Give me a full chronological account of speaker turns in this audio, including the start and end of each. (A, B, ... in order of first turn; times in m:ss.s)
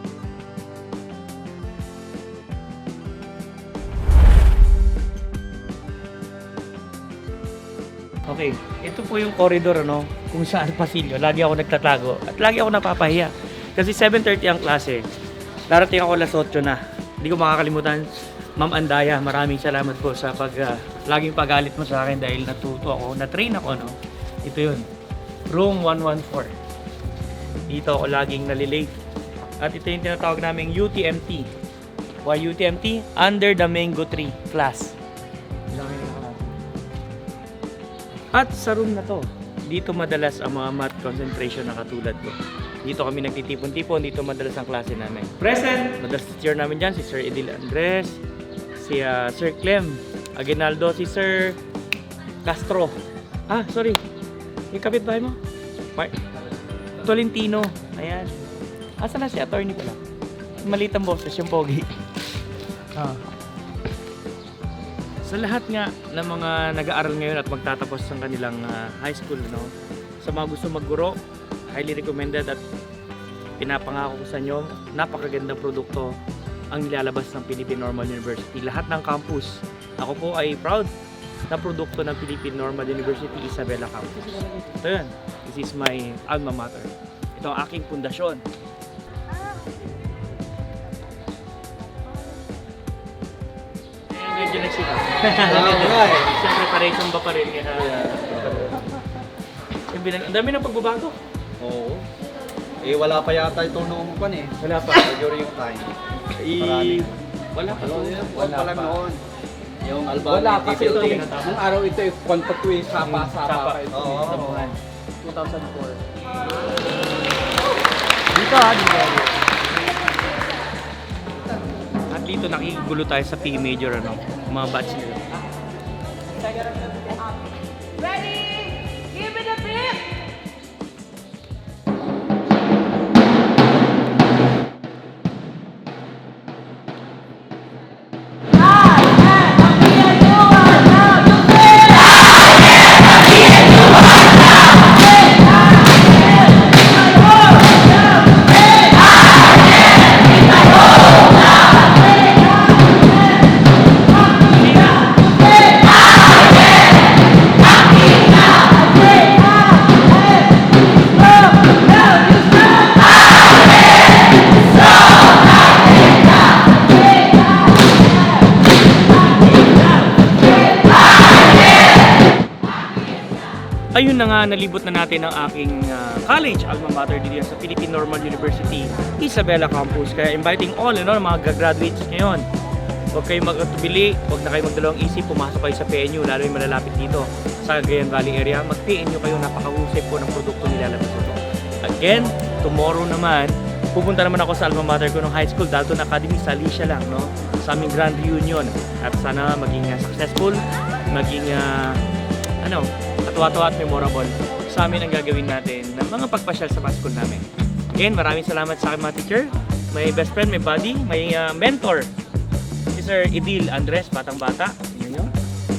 0:08.3-0:15.0 A
0:15.7-0:24.9 A
0:25.5-0:26.5 A
0:27.7-0:28.9 A
0:29.6-0:31.5 A
0:32.2-0:34.9 A
0:35.7-0:36.5 A
0:38.3-0:48.2 A
0:48.7-0:51.6 A
0:52.4-0:53.0 A
0:53.5-0:54.0 A
0:54.7-0:55.4 A
0:57.0-0:58.3 A
0:59.0-1:00.0 A
1:00.6-1:01.9 A
1:05.2-1:11.2 A
1:11.7-1:12.6 A
1:13.6-1:16.1 A
1:16.7-1:20.9 A
1:21.5-1:28.4 A
1:34.1-1:38.8 A
1:35.4-1:36.3 B
1:37.8-1:38.8 B
1:39.9-1:41.1 A
1:41.6-1:42.0 B
1:42.8-1:45.9 B
1:44.6-1:45.1 A
1:46.4-1:48.8 A
1:46.5-1:47.2 B
1:47.7-1:49.2 B
1:48.5-1:48.9 C
1:49.8-1:51.3 B
1:50.2-1:54.6 C
1:50.6-1:51.6 A
1:53.0-1:54.8 A
1:53.9-1:54.6 B
1:58.3-1:59.3 A
2:02.1-2:05.3 A
2:08.0-2:10.0 D
2:53.9-3:02.4 A
3:03.1-3:22.0 A
3:22.6-3:27.4 A
3:28.0-3:32.1 A
3:32.9-3:35.3 A